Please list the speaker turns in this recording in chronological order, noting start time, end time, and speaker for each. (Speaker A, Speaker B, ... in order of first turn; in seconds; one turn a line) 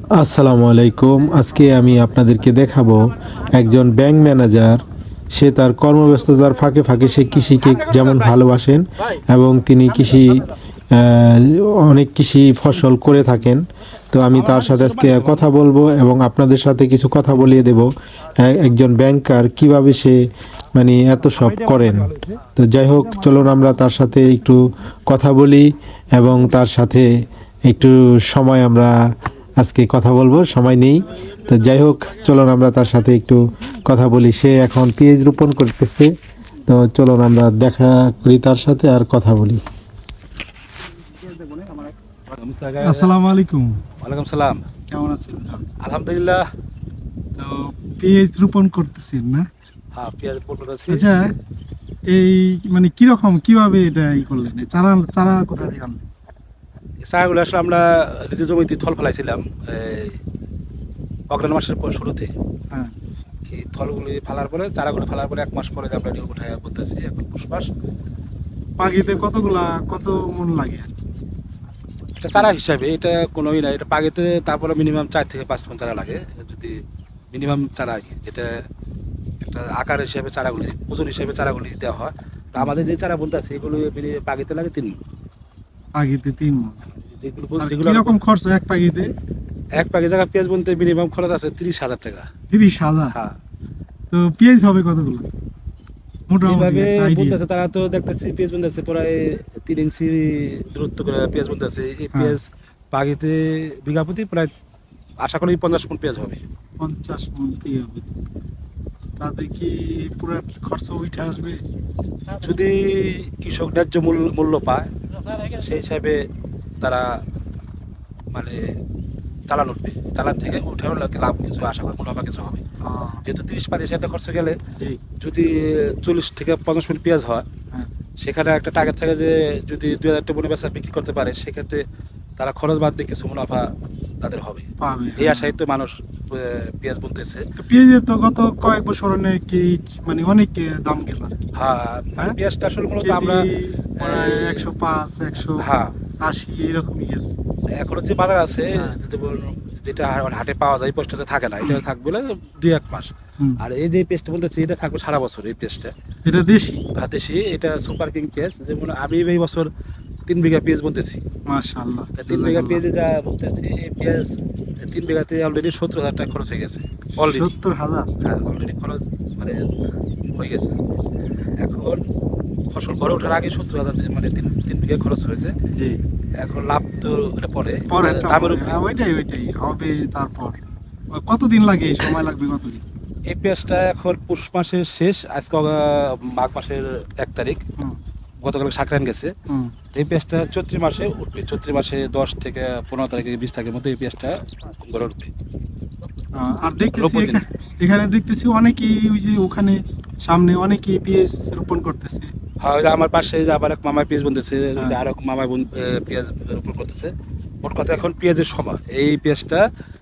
Speaker A: 0.1-4.8
Speaker A: 5.3-17.9
Speaker B: 11.8-12.1
Speaker C: 14.3-15.6
Speaker B: 18.4-18.9
Speaker A: 18.6-20.1
Speaker A: 20.8-27.1
Speaker C: 21.2-22.4
Speaker B: 24.0-24.3
Speaker B: 27.7-28.4
Speaker A: 27.7-28.9
Speaker A: 29.6-34.5
Speaker B: 33.9-36.1
Speaker B: 36.7-39.5
Speaker A: 36.9-37.6
Speaker C: 41.1-43.1
Speaker B: 42.8-43.8
Speaker C: 44.0-44.6
Speaker B: 44.9-45.6
Speaker C: 45.8-46.4
Speaker B: 47.4-49.5
Speaker C: 49.9-51.1
Speaker B: 50.9-51.3
Speaker B: 52.1-56.0
Speaker C: 57.0-60.2
Speaker C: 61.3-62.3
Speaker C: 63.5-67.7
Speaker B: 68.8-70.9
Speaker C: 72.2-76.8
Speaker C: 77.3-78.5
Speaker C: 79.4-85.0
Speaker B: 86.0-86.8
Speaker C: 87.1-88.2
Speaker B: 87.6-89.1
Speaker C: 89.8-92.3
Speaker B: 92.5-93.1
Speaker B: 94.1-95.3
Speaker B: 96.3-97.4
Speaker C: 96.4-104.5
Speaker B: 102.1-102.4
Speaker C: 105.2-106.4
Speaker B: 106.8-108.1
Speaker B: 109.2-111.6
Speaker C: 112.4-116.2
Speaker C: 116.8-117.1
Speaker C: 118.3-118.6
Speaker C: 119.5-122.6
Speaker B: 122.8-123.2
Speaker C: 123.2-124.6
Speaker C: 125.2-127.5
Speaker C: 128.2-131.8
Speaker C: 132.4-133.7
Speaker C: 134.2-134.7
Speaker B: 134.8-135.6
Speaker C: 135.2-137.4
Speaker B: 137.6-141.4
Speaker C: 141.5-144.6
Speaker B: 143.0-145.7
Speaker C: 145.6-146.0
Speaker B: 146.2-147.3
Speaker C: 147.8-155.9
Speaker B: 148.7-149.0
Speaker B: 156.2-156.8
Speaker C: 156.9-159.7
Speaker C: 160.3-161.2
Speaker B: 161.5-162.8
Speaker C: 162.1-167.5
Speaker B: 167.2-168.1
Speaker C: 168.2-170.8
Speaker C: 171.6-172.0
Speaker C: 172.7-175.6
Speaker B: 175.7-176.0
Speaker C: 176.4-178.8
Speaker B: 177.8-180.6
Speaker B: 181.1-182.8
Speaker C: 183.3-187.6
Speaker C: 188.4-189.3
Speaker C: 189.9-195.3
Speaker B: 196.3-202.3
Speaker C: 196.9-197.4
Speaker C: 202.6-209.7